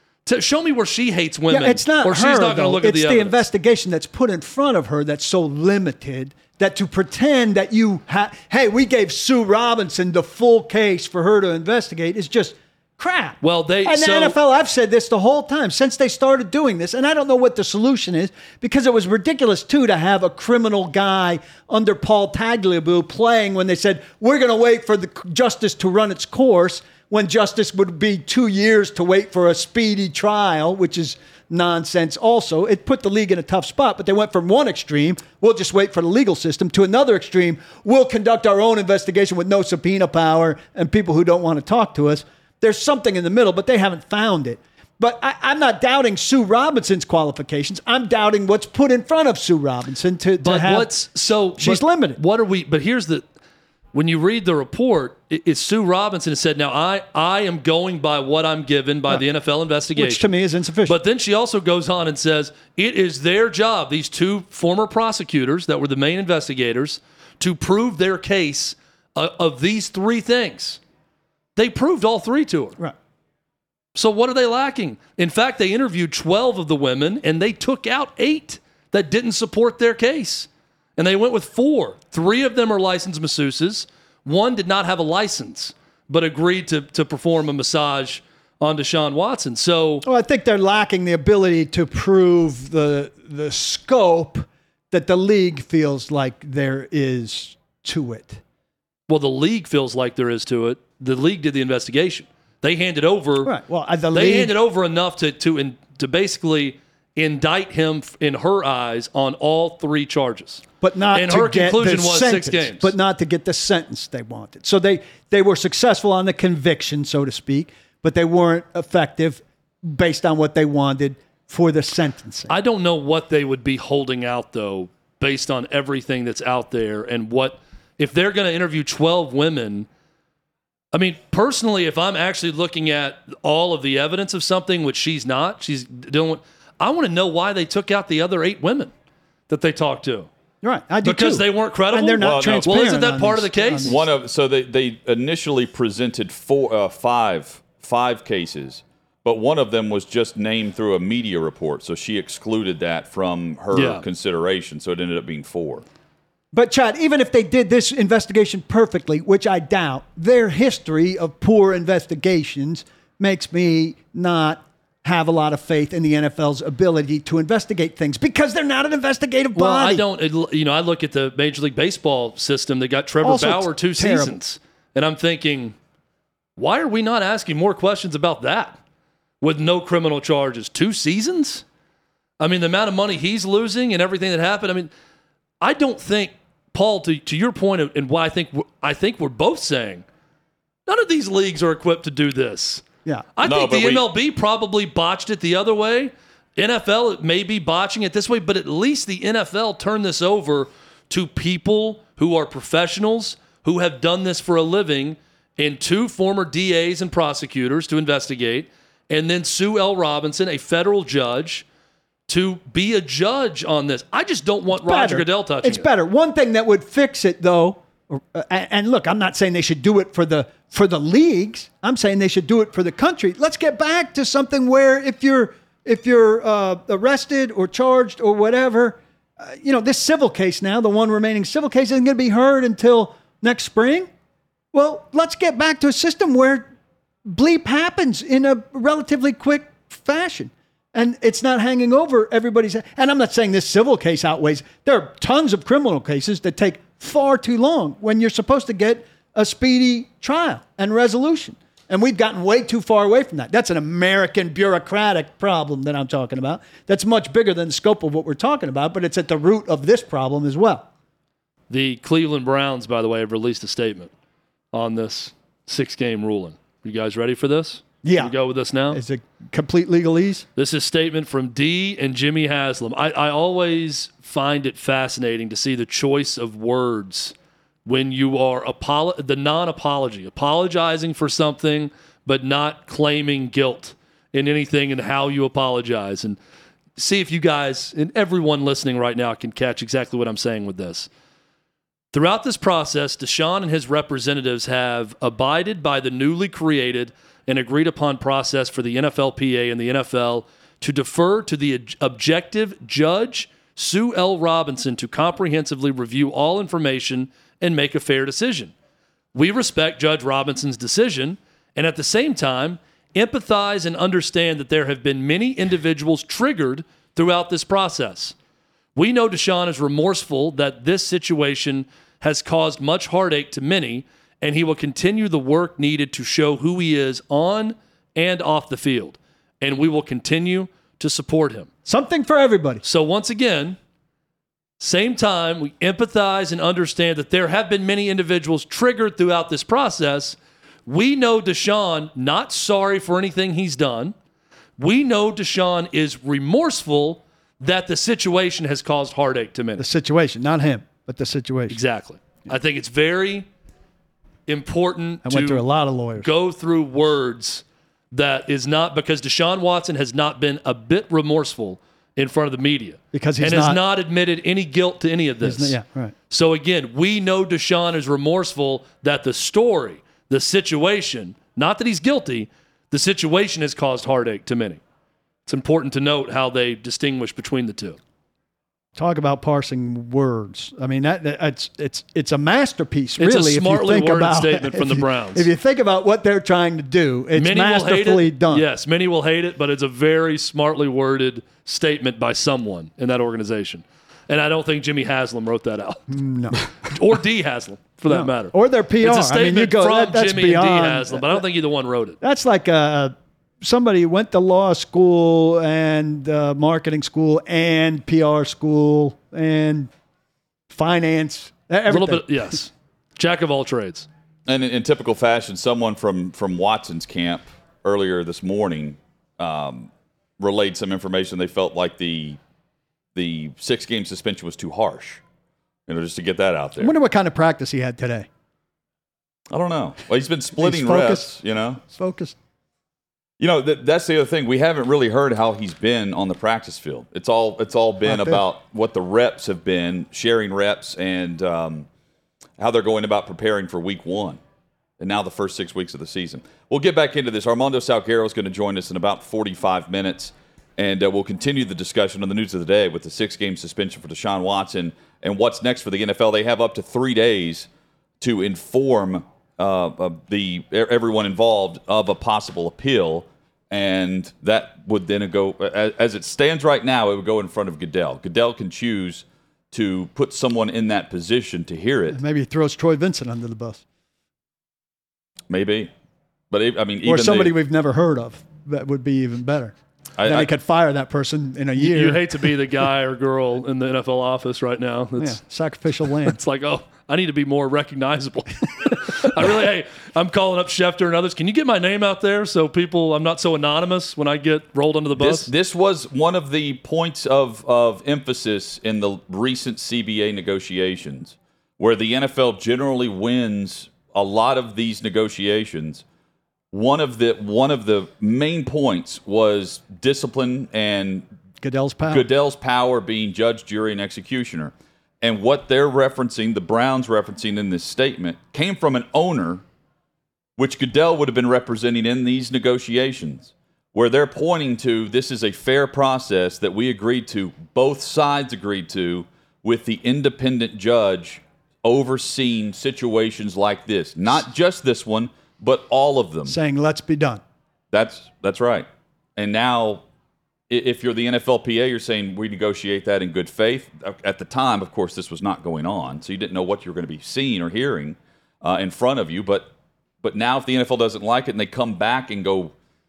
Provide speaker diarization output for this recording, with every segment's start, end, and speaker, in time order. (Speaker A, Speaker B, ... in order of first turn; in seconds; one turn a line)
Speaker A: 0.2-3.4
Speaker B: 1.5-52.2
Speaker A: 13.4-14.4
Speaker A: 50.4-53.2
Speaker A: 53.9-60.2
Speaker B: 59.9-61.0
Speaker A: 60.9-70.8
Speaker A: 71.5-72.8
Speaker A: 73.9-90.0
Speaker B: 90.0-98.4
Speaker A: 99.1-103.5
Speaker B: 103.4-104.5
Speaker A: 104.1-110.6
Speaker B: 110.8-122.5
Speaker A: 111.1-112.9
Speaker A: 122.5-129.9
Speaker A: 130.9-138.9
Speaker A: 139.5-140.3
Speaker B: 140.6-144.0
Speaker A: 141.0-144.0
Speaker C: 142.2-142.7
Speaker C: 143.8-155.8
Speaker A: 153.7-154.0
Speaker B: 156.5-170.0
Speaker A: 169.5-175.8
Speaker B: 173.2-174.4
Speaker A: 176.6-178.8
Speaker A: 179.4-181.6
Speaker A: 182.4-184.9
Speaker A: 185.6-190.0
Speaker A: 190.9-192.8
Speaker A: 193.3-211.6
Speaker C: 193.4-194.1
Speaker A: 212.3-215.9
Speaker B: 214.7-234.1
Speaker B: 234.7-236.7
Speaker B: 237.2-260.9
Speaker A: 261.7-264.1
Speaker A: 264.7-269.0
Speaker B: 268.0-268.3
Speaker B: 268.9-270.4
Speaker A: 270.6-277.3
Speaker A: 277.8-286.4
Speaker A: 287.0-291.1
Speaker A: 292.1-308.7
Speaker A: 309.3-318.4
Speaker A: 318.9-331.7
Speaker B: 331.9-332.8
Speaker A: 332.8-333.8
Speaker A: 334.8-344.1
Speaker A: 344.8-349.9
Speaker B: 349.8-351.8
Speaker A: 351.7-353.5
Speaker A: 354.5-355.6
Speaker B: 355.2-356.3
Speaker A: 356.2-365.8
Speaker B: 363.1-363.8
Speaker B: 365.4-366.1
Speaker A: 366.3-374.8
Speaker A: 375.4-378.0
Speaker B: 378.9-388.6
Speaker A: 383.2-385.5
Speaker A: 387.4-396.1
Speaker B: 396.1-396.6
Speaker A: 396.8-402.2
Speaker B: 398.1-401.4
Speaker B: 402.2-409.9
Speaker B: 410.7-412.6
Speaker A: 411.9-414.1
Speaker C: 414.5-422.4
Speaker C: 423.1-425.2
Speaker C: 425.9-426.9
Speaker B: 426.8-428.3
Speaker C: 429.5-431.8
Speaker B: 430.6-432.4
Speaker C: 433.4-441.9
Speaker B: 438.0-438.4
Speaker C: 442.6-444.4
Speaker C: 445.0-457.7
Speaker C: 458.2-472.2
Speaker B: 472.1-473.8
Speaker C: 475.5-475.9
Speaker C: 476.5-477.5
Speaker B: 477.0-482.3
Speaker C: 480.2-480.5
Speaker A: 481.8-485.4
Speaker B: 485.2-486.4
Speaker A: 486.2-495.5
Speaker C: 495.2-506.0
Speaker C: 506.7-511.2
Speaker B: 511.6-512.3
Speaker C: 512.1-519.6
Speaker C: 520.6-536.6
Speaker B: 536.5-537.4
Speaker C: 537.9-540.0
Speaker C: 540.7-549.7
Speaker C: 550.2-552.7